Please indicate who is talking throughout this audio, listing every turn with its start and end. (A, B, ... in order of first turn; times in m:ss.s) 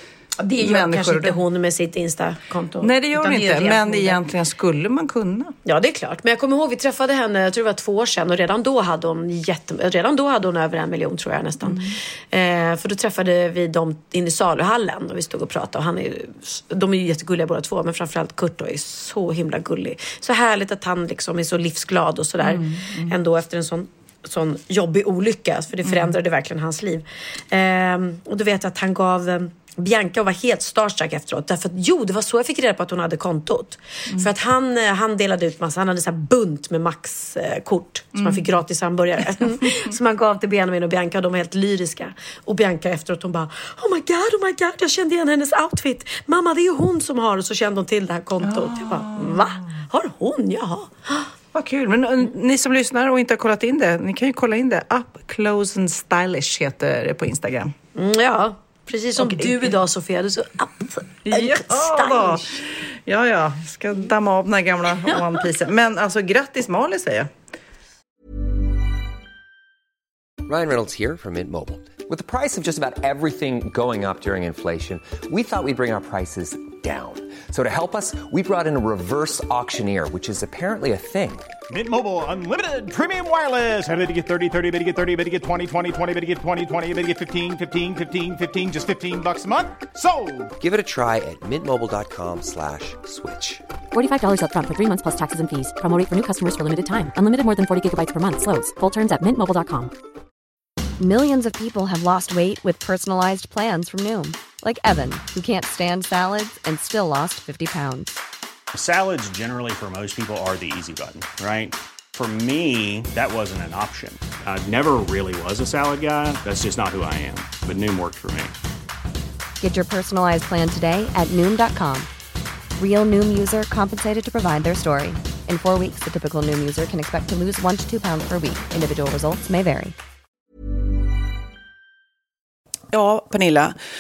0:00.4-0:04.2 A
0:00.6-0:01.4 B
0:02.8-0:05.5 B
0:05.7-0:51.3 A
0:11.6-0:12.0 B
0:22.4-0:23.1 B
0:25.8-0:26.2 B
0:38.2-0:38.5 B
0:48.4-0:49.8 B
0:51.5-0:57.8 B
0:58.0-1:02.6 A
0:59.2-0:59.7 B
1:01.2-1:07.3 B
1:10.4-1:21.5 C
1:21.7-1:30.5 D
1:30.6-1:33.6 C
1:33.9-1:39.9 E
1:41.0-1:48.2 F
1:48.7-1:58.5 G
1:59.6-2:02.1 F
2:02.8-2:10.0 F
2:12.9-2:13.8 B